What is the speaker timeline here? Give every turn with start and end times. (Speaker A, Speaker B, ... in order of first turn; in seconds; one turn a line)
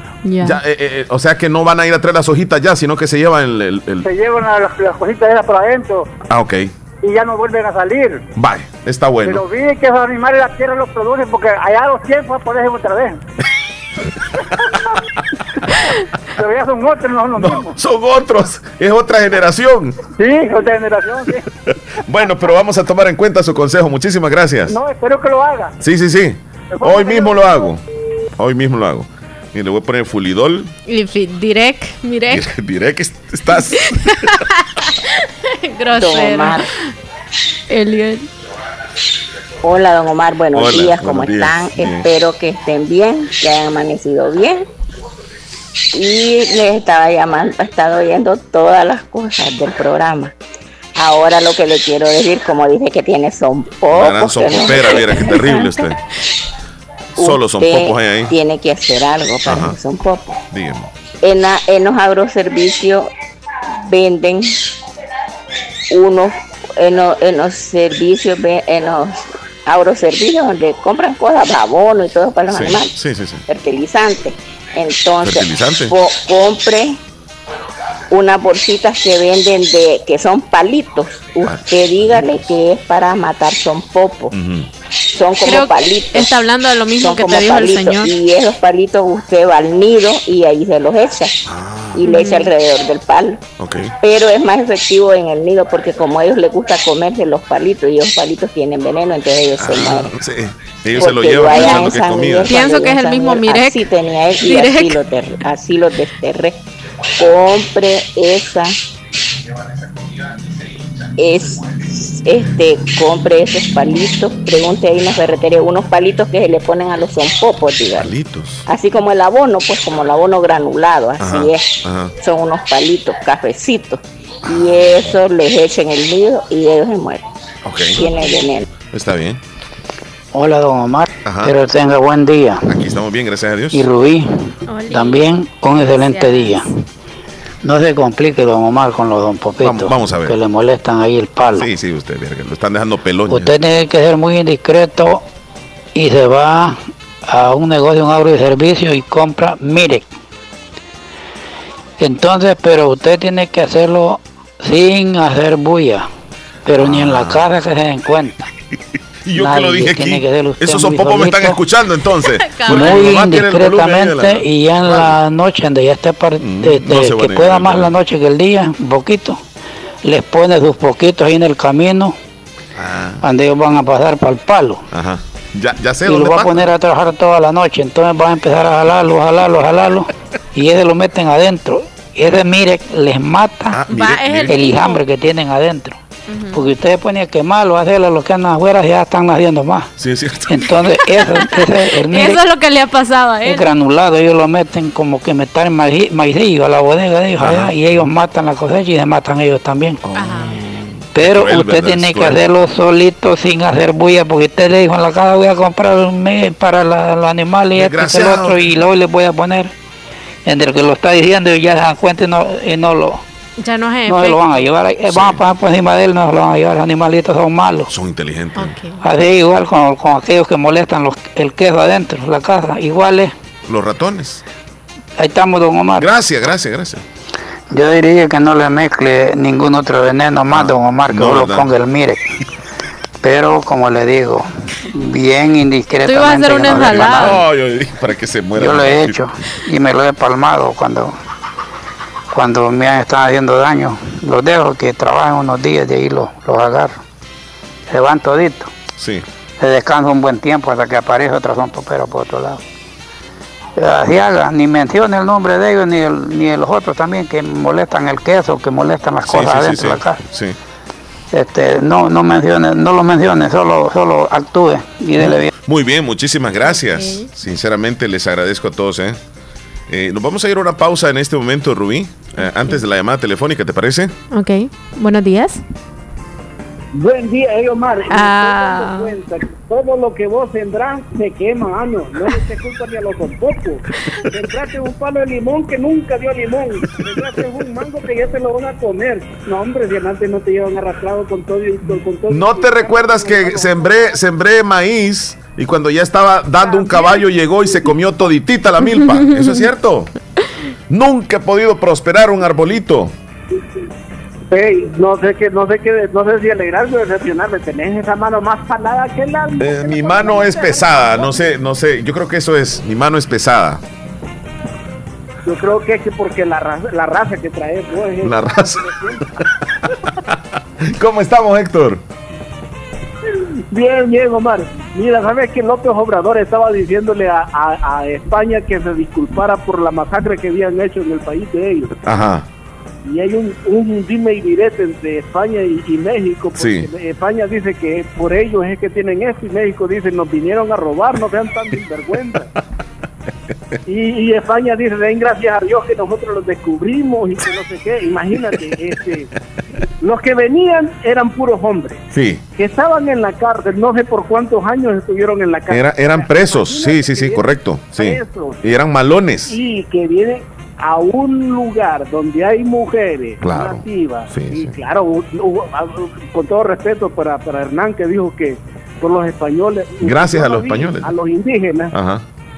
Speaker A: 0.2-0.6
Speaker B: 0.4-4.1
Speaker C: 4.1-6.0
Speaker B: 6.3-6.7
Speaker C: 7.0-8.2
Speaker B: 8.4-9.4
Speaker C: 9.3-13.2
Speaker C: 16.4-17.7
Speaker B: 17.4-20.0
Speaker C: 20.2-21.3
Speaker B: 22.1-24.8
Speaker C: 24.8-25.7
Speaker B: 25.8-27.8
Speaker B: 28.4-30.7
Speaker A: 30.9-32.5
Speaker B: 32.3-34.3
Speaker A: 34.0-36.7
Speaker D: 35.9-36.6
Speaker A: 37.7-38.3
Speaker D: 39.6-44.6
Speaker B: 40.5-42.1
Speaker D: 45.9-50.3
Speaker D: 51.0-55.6
Speaker B: 53.9-56.0
Speaker A: 54.6-55.9
Speaker B: 57.2-58.3
Speaker D: 57.2-60.4
Speaker B: 59.5-59.8
Speaker B: 60.5-60.9
Speaker D: 61.2-63.1
Speaker D: 63.9-64.6
Speaker D: 65.9-72.9
Speaker B: 72.5-73.4
Speaker D: 73.5-77.0
Speaker B: 75.2-76.0
Speaker D: 78.1-84.3
Speaker B: 81.5-82.2
Speaker B: 84.3-84.7
Speaker D: 85.2-86.3
Speaker A: 85.5-88.1
Speaker D: 87.0-91.3
Speaker B: 91.5-92.1
Speaker D: 92.0-93.4
Speaker A: 92.1-92.5
Speaker B: 93.6-93.9
Speaker D: 94.0-100.1
Speaker B: 99.6-102.5
Speaker D: 101.0-106.6
Speaker A: 101.5-103.9
Speaker A: 104.4-105.0
Speaker D: 107.2-108.8
Speaker D: 111.2-118.1
Speaker B: 118.0-118.7
Speaker D: 118.7-121.6
Speaker B: 121.2-122.1
Speaker D: 122.2-127.2
Speaker B: 124.5-125.1
Speaker B: 127.7-128.1
Speaker D: 127.9-128.7
Speaker B: 128.9-129.4
Speaker E: 130.3-132.7
Speaker B: 131.2-131.5
Speaker B: 132.7-133.8
Speaker E: 133.7-136.7
Speaker A: 134.7-136.6
Speaker E: 137.6-141.7
Speaker B: 139.6-140.3
Speaker B: 141.6-143.5
Speaker E: 143.3-145.2
Speaker E: 146.0-150.1
Speaker E: 152.0-156.1
Speaker E: 156.7-158.5
Speaker B: 156.8-157.4
Speaker B: 159.3-165.1
Speaker E: 159.3-161.6
Speaker A: 162.4-163.2
Speaker E: 162.7-169.4
Speaker B: 166.4-167.9
Speaker E: 170.1-172.2
Speaker B: 172.8-173.2
Speaker E: 173.2-174.8
Speaker B: 174.9-176.6
Speaker E: 176.1-183.8
Speaker B: 183.7-184.6
Speaker A: 183.9-185.0
Speaker E: 184.5-186.0
Speaker A: 186.3-186.6
Speaker E: 186.5-189.9
Speaker B: 190.0-190.7
Speaker E: 190.5-192.4
Speaker A: 192.1-193.7
Speaker E: 193.4-200.1
Speaker B: 197.4-197.7
Speaker A: 200.2-200.6
Speaker B: 200.2-202.4
Speaker E: 201.2-209.7
Speaker B: 207.8-208.6
Speaker E: 210.5-213.2
Speaker A: 213.6-214.4
Speaker E: 214.1-217.9
Speaker B: 215.1-215.4
Speaker B: 217.9-218.8
Speaker A: 218.6-219.0
Speaker E: 219.0-223.3
Speaker B: 223.7-224.4
Speaker E: 225.2-226.1
Speaker B: 226.0-227.0
Speaker E: 227.7-232.2
Speaker B: 230.5-231.7
Speaker E: 233.2-237.4
Speaker A: 236.1-237.4
Speaker B: 236.9-239.3
Speaker E: 238.6-241.1
Speaker E: 242.3-247.0
Speaker E: 247.9-248.7
Speaker B: 249.0-249.2
Speaker E: 249.6-252.6
Speaker E: 253.8-260.2
Speaker B: 259.3-260.6
Speaker E: 261.3-265.5
Speaker B: 265.2-269.2
Speaker A: 266.6-267.3
Speaker B: 269.9-274.1
Speaker A: 272.4-272.8
Speaker A: 274.3-275.6
Speaker F: 277.0-294.2
Speaker A: 278.1-279.2
Speaker B: 292.3-300.1
Speaker F: 296.6-297.1
Speaker A: 299.0-299.7
Speaker B: 300.9-303.1
Speaker F: 304.5-311.6
Speaker B: 309.6-313.8
Speaker F: 315.5-319.2
Speaker B: 318.2-318.9
Speaker B: 320.1-322.0
Speaker F: 323.7-331.9
Speaker B: 332.1-332.5
Speaker F: 333.1-342.5
Speaker B: 336.6-336.9
Speaker F: 343.9-349.3
Speaker F: 350.0-352.0
Speaker B: 352.1-352.4
Speaker F: 352.6-358.6
Speaker B: 355.7-359.6
Speaker F: 359.5-371.9
Speaker B: 363.4-364.8
Speaker B: 370.0-371.1
Speaker B: 371.9-372.2